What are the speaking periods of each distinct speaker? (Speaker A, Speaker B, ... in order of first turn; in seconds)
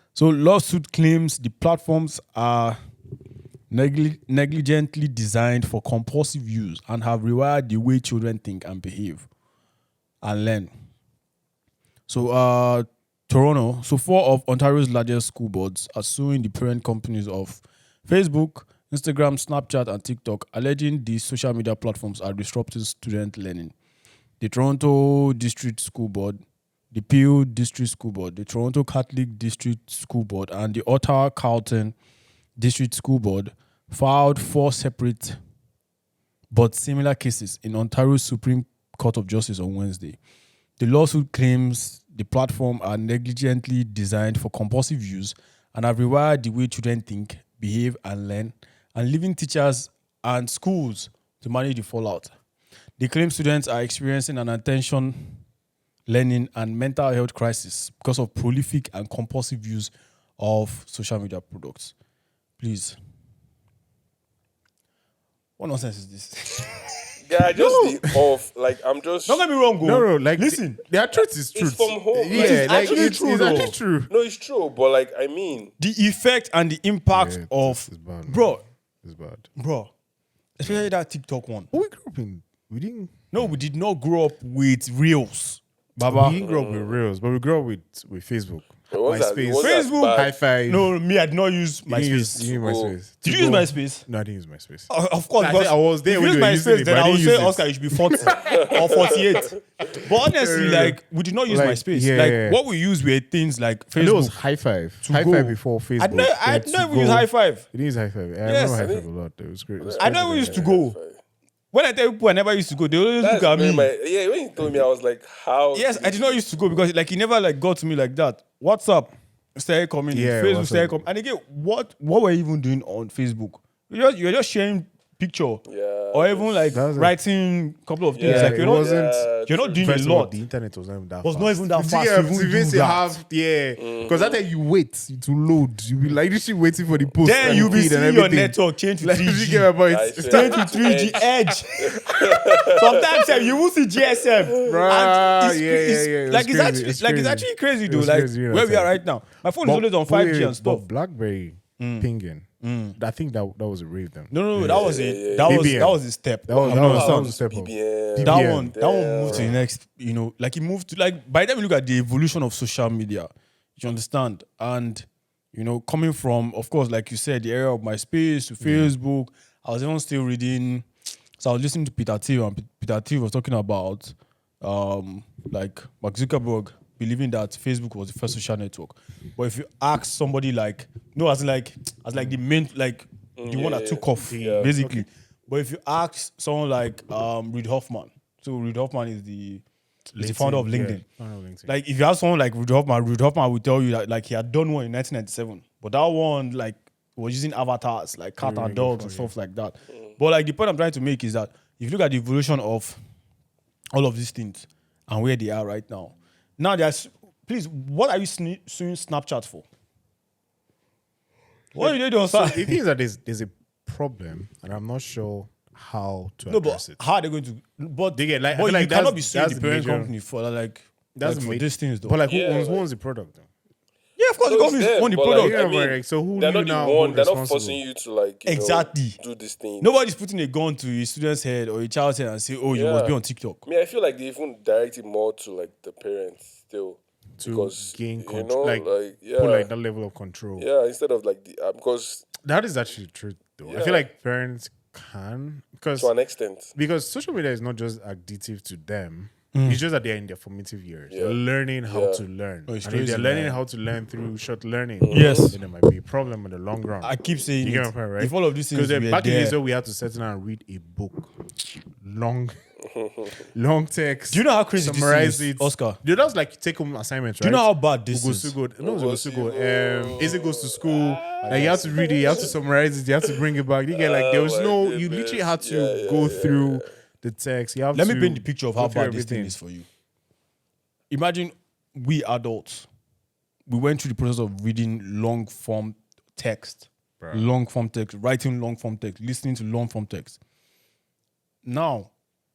Speaker A: 0.1-2.8, 3.7-9.3, 10.2-10.7, 12.1-23.7, 24.4-26.4, 26.9-31.9, 32.6-35.4, 36.5-40.2, 40.8-52.3, 53.0-55.4, 56.1-61.9, 62.6-63.0, 65.6-67.0, 69.3-70.8, 72.3-73.8, 75.8-78.6, 79.6-79.9, 80.6-81.7, 83.3-86.4, 89.6-92.5, 93.2-94.1, 94.9-104.4, 105.0-107.7, 108.5-108.9, 110.0-111.0, 111.7-113.9, 115.7-128.9, 129.4-130.3, 131.2-133.2, 137.2-139.7, 140.3-150.8, 151.8-152.1, 152.6-153.0, 154.3-157.4, 158.2-170.9, 171.4-189.6, 190.2-191.0, 191.7-203.0, 203.9-209.7, 211.8-212.8, 216.5-222.2, 224.2-225.6, 228.4-229.2, 229.8-233.7, 249.5-249.8, 252.7-253.6, 255.1-255.6, 257.0-259.6, 264.3-266.0, 267.4-268.6, 271.4-272.2, 277.9-279.9, 281.1-282.9, 283.7-290.4, 291.6-292.1
Speaker B: 67.2-69.4, 71.5-75.7, 86.4-87.0, 88.9-90.4, 92.4-93.0, 98.3-99.5, 108.7-109.1, 109.8-111.2, 113.2-116.5, 125.7-126.8, 128.2-129.9, 133.8-134.4, 137.3-137.9, 139.9-143.6, 144.2-144.8, 154.7-155.8, 156.5-159.6, 183.4-184.7, 222.3-222.9, 224.4-229.9, 232.7-239.7, 240.6-242.3, 243.7-244.1, 246.0-246.7, 251.1-252.2, 255.0-255.6, 262.9-263.4, 268.8-272.5, 273.9-276.9
Speaker C: 67.5-68.1, 69.8-74.1, 77.1-79.5, 81.7-83.5, 86.0-91.0, 91.9-98.6, 100.1-102.6, 104.0-110.7, 120.1-121.0, 126.7-127.2, 128.2-140.9, 144.6-149.0, 149.6-152.5, 153.0-158.8, 159.3-159.5, 168.6-168.9, 184.3-185.1, 190.1-191.7, 198.4-199.3, 211.8-217.0, 218.1-220.1, 221.2-223.5, 225.3-227.8, 237.4-240.7, 242.4-246.1, 246.8-261.3, 262.0-262.6, 263.5-279.6, 287.2-287.5